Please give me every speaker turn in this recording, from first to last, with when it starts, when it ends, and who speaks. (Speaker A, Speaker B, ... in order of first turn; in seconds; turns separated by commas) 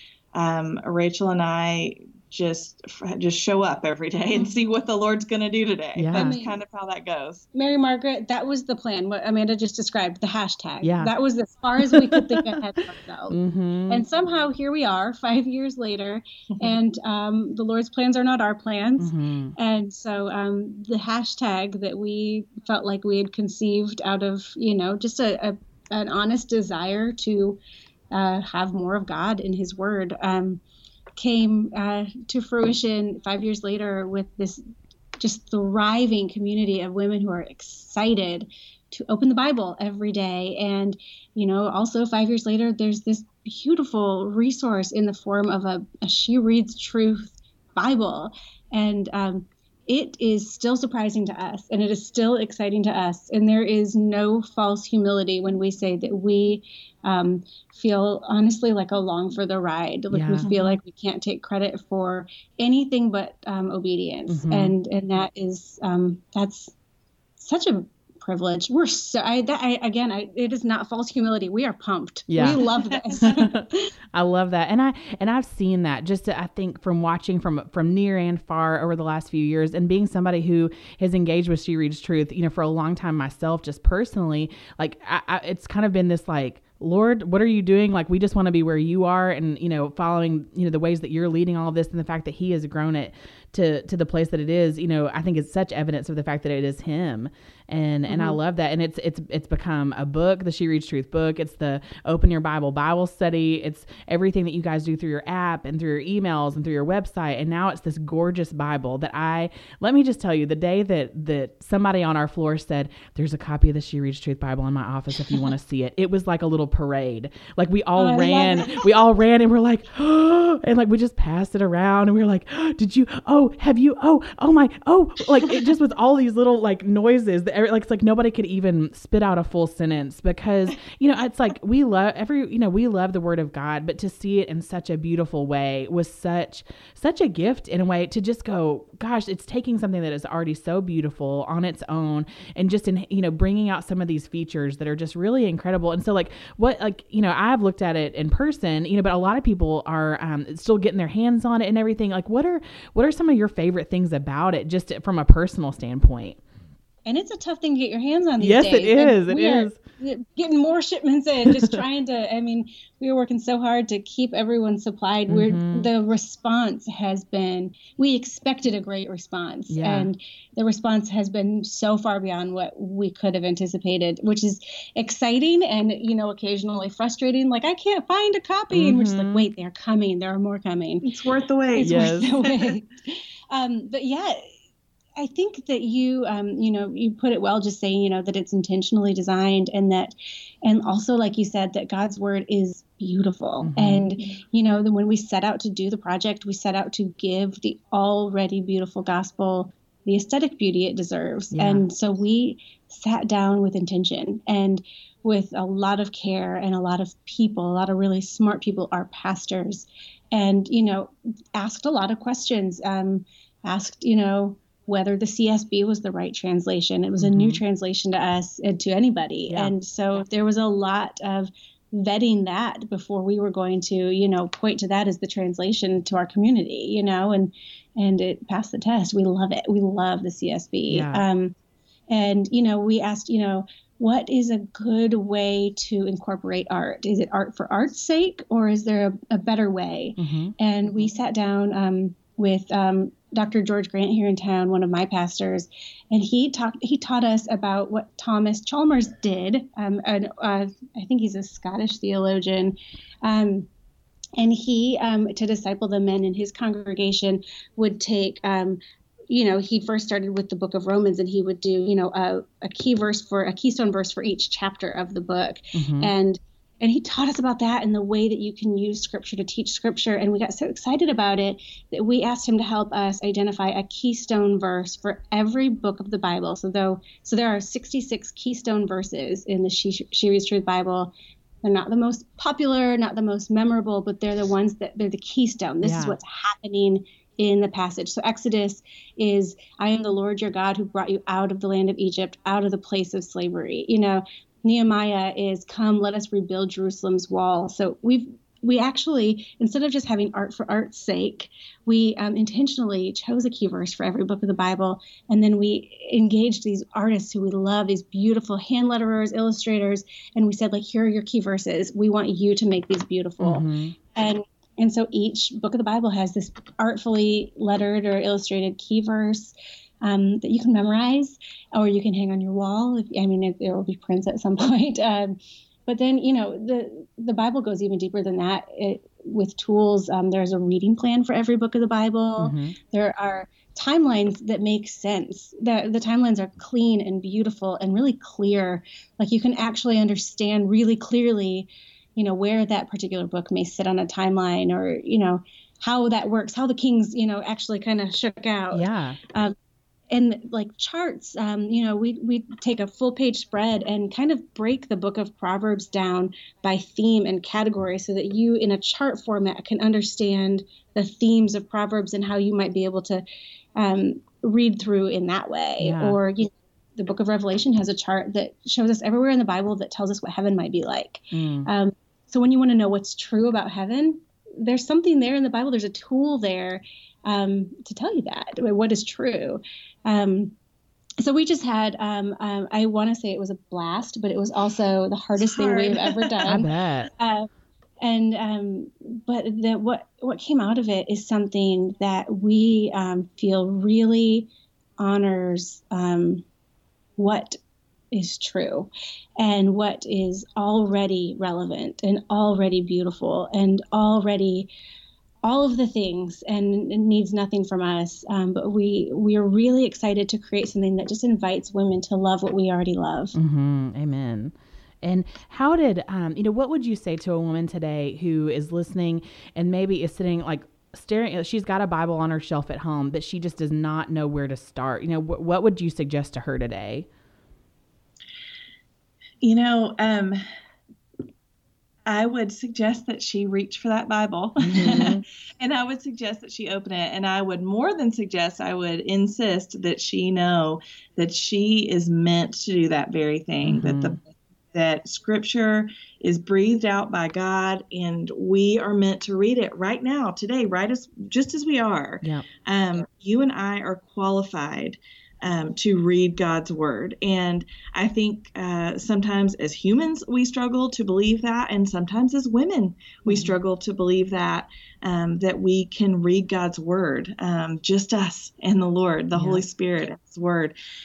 Speaker A: 0.3-7.4, Speaker B: 6.0-6.3, Speaker C: 6.1-6.5, Speaker C: 7.5-27.6, Speaker B: 10.8-11.1, Speaker B: 11.9-12.5, Speaker B: 13.3-14.0, Speaker B: 19.0-19.5, Speaker C: 28.1-30.6, Speaker C: 31.2-34.6, Speaker C: 35.2-66.7, Speaker B: 60.1-60.5, Speaker A: 60.4-60.8, Speaker B: 64.3-64.7, Speaker C: 67.4-73.9, Speaker B: 72.3-72.6, Speaker B: 73.2-156.4, Speaker C: 98.1-98.4, Speaker C: 118.0-118.9, Speaker C: 157.1-181.1, Speaker B: 158.4-159.8, Speaker B: 165.3-165.9, Speaker B: 169.7-170.1, Speaker B: 178.7-179.5, Speaker A: 181.0-182.7, Speaker C: 181.7-184.4, Speaker B: 181.8-182.3, Speaker C: 185.2-190.1, Speaker C: 190.6-231.5, Speaker B: 193.6-194.0, Speaker B: 201.5-201.8, Speaker B: 217.2-217.6, Speaker B: 230.9-231.2, Speaker C: 232.1-253.7, Speaker B: 240.2-240.5, Speaker C: 254.4-281.1, Speaker B: 265.7-266.1, Speaker C: 281.6-349.5, Speaker B: 285.8-286.2, Speaker B: 313.4-313.9, Speaker B: 332.4-332.7, Speaker B: 348.7-349.2, Speaker C: 350.1-380.5, Speaker B: 365.8-366.2, Speaker B: 371.3-371.7, Speaker C: 381.2-387.5, Speaker A: 385.4-386.5, Speaker B: 386.5-387.1, Speaker C: 388.0-396.4, Speaker C: 397.2-397.6, Speaker C: 398.1-404.7, Speaker C: 405.4-413.3, Speaker B: 413.3-427.1, Speaker A: 429.4-430.4, Speaker A: 432.1-444.2, Speaker B: 434.6-435.2, Speaker B: 443.6-444.2, Speaker A: 444.7-470.7, Speaker B: 469.3-469.6